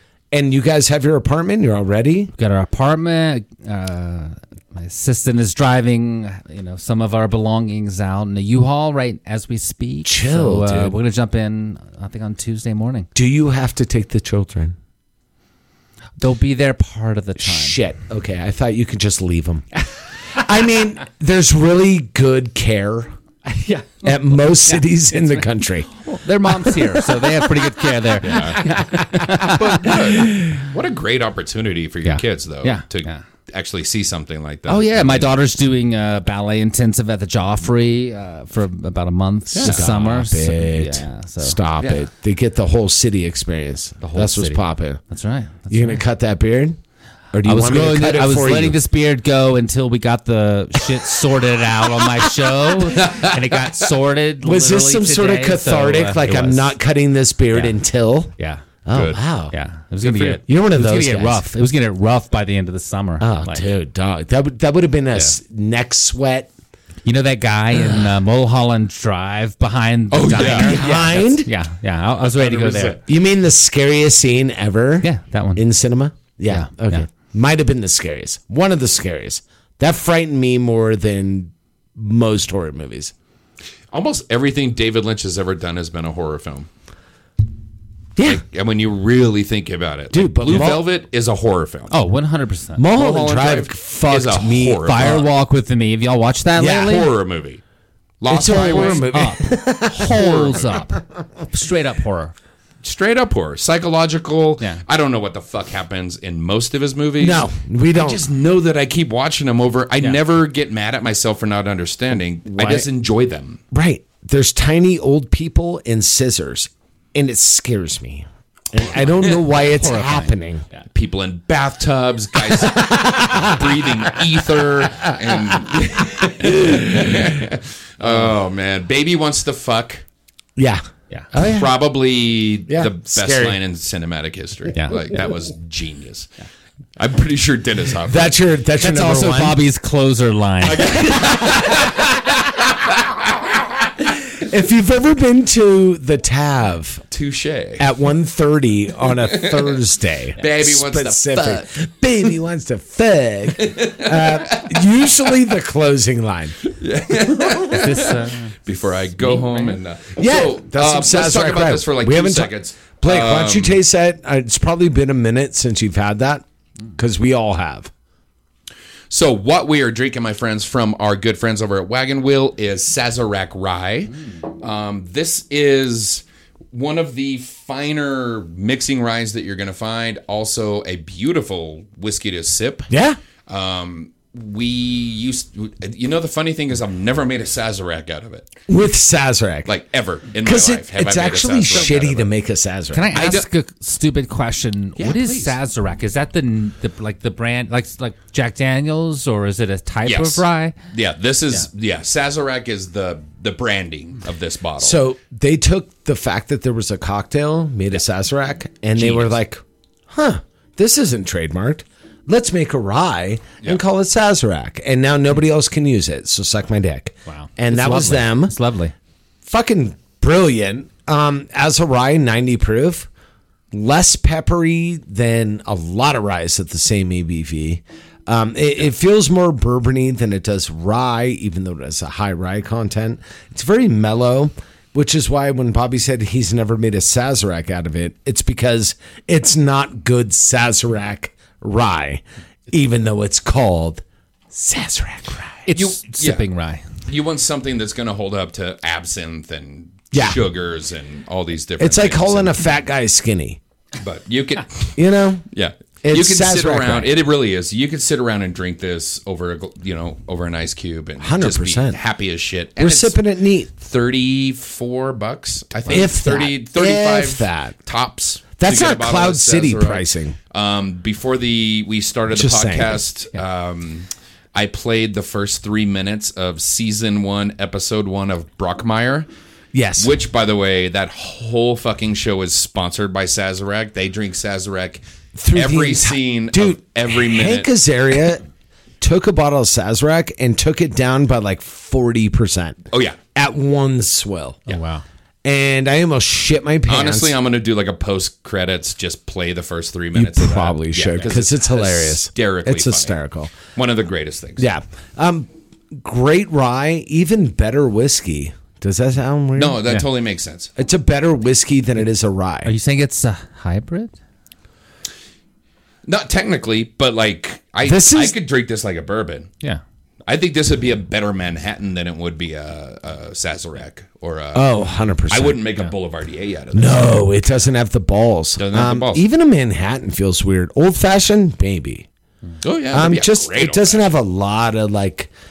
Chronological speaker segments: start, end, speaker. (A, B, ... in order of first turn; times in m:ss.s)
0:00.3-0:02.3 A
0:02.4-0:13.1 B
0:10.0-0:11.0 A
0:13.2-0:14.8 A
0:16.2-0:17.8 B
0:17.4-0:19.7 A
0:20.3-0:23.1 A
0:23.4-0:30.0 B
0:24.0-0:25.9 A
0:28.2-0:28.6 C
0:28.3-0:29.1 A
0:29.4-0:35.3 C
0:32.0-0:33.2 B
0:34.7-0:41.6 B
0:39.5-0:39.9 C
0:39.6-0:45.0 A
0:41.8-0:42.0 C
0:44.0-0:46.0 B
0:45.7-0:46.8 A
0:47.3-0:48.8 A
0:47.4-0:56.7 B
0:53.0-0:53.3 C
0:54.4-0:58.3 A
0:58.4-0:58.6 B
0:58.8-0:59.6 A
0:58.9-0:59.2 C
0:59.5-1:03.7 B
1:00.0-1:00.4 C
1:00.5-1:01.5 A
1:03.2-1:06.5 A
1:07.0-1:13.0 B
1:10.1-1:10.9 C
1:10.4-1:11.5 A
1:12.2-1:13.0 C
1:13.0-1:23.1 A
1:15.0-1:15.6 B
1:16.5-1:17.1 B
1:23.9-1:26.7 C
1:28.2-1:28.4 A
1:28.2-1:32.0 C
1:30.1-1:30.9 A
1:31.9-1:32.8 B
1:32.8-1:35.2 A
1:32.9-1:35.3 C
1:34.8-1:37.1 B
1:36.6-1:37.1 A
1:36.8-1:37.6 C
1:38.2-1:39.2 C
1:38.3-1:41.0 A
1:38.5-1:42.3 B
1:40.0-1:40.8 C
1:42.8-1:53.6 C
1:47.2-1:48.3 A
1:52.5-1:52.9 A
1:53.7-2:00.6 A
1:59.6-2:00.8 B
2:00.9-2:10.0 C
2:02.5-2:04.1 A
2:04.9-2:07.3 A
2:10.6-2:11.7 A
2:11.4-2:16.3 C
2:12.7-2:13.6 A
2:17.0-2:18.4 C
2:18.1-2:19.6 A
2:18.8-2:21.1 B
2:20.6-2:23.3 C
2:21.3-2:21.9 A
2:24.4-2:27.0 A
2:27.1-2:27.9 C
2:27.8-2:36.6 A
2:29.2-2:29.8 C
2:30.4-2:31.7 C
2:33.6-2:34.8 C
2:36.6-2:43.8 C
2:37.7-2:38.5 B
2:39.2-2:39.7 B
2:40.2-2:46.4 A
2:47.0-2:47.9 A
2:49.1-3:02.9 C
3:02.9-3:03.2 A
3:03.5-3:08.5 C
3:08.7-3:09.7 A
3:09.7-3:12.3 C
3:10.4-3:13.1 A
3:12.9-3:20.8 B
3:13.1-3:13.5 C
3:15.0-3:15.6 C
3:20.0-3:25.0 C
3:24.8-3:38.6 A
3:29.0-3:29.3 C
3:37.3-3:38.9 B
3:39.4-3:43.1 A
3:43.7-4:05.6 A
4:05.7-4:06.8 B
4:05.7-4:06.4 C
4:07.1-4:12.6 C
4:10.1-4:10.4 A
4:11.8-4:13.6 A
4:14.0-4:15.0 C
4:15.0-4:15.4 A
4:15.5-4:23.2 C
4:16.0-4:17.1 A
4:21.2-4:22.0 A
4:22.8-4:23.7 A
4:23.7-4:39.3 C
4:25.9-4:27.8 A
4:28.6-4:30.4 A
4:32.3-4:33.0 A
4:39.7-4:40.2 A
4:40.0-4:47.7 C
4:45.4-4:48.4 A
4:49.0-4:54.7 A
4:52.9-4:53.2 C
4:54.7-4:55.0 B
4:55.4-4:57.4 A
4:56.9-5:03.1 C
5:00.2-5:03.6 A
5:03.7-5:04.7 C
5:04.6-5:09.8 A
5:09.6-5:10.7 C
5:10.8-5:12.7 A
5:12.6-5:14.2 B
5:16.0-5:19.5 C
5:17.8-5:18.4 A
5:20.3-5:24.8 C
5:24.6-5:25.6 A
5:25.3-5:27.3 C
5:26.7-5:32.1 A
5:28.6-5:29.2 C
5:32.6-5:34.1 C
5:32.9-5:35.3 A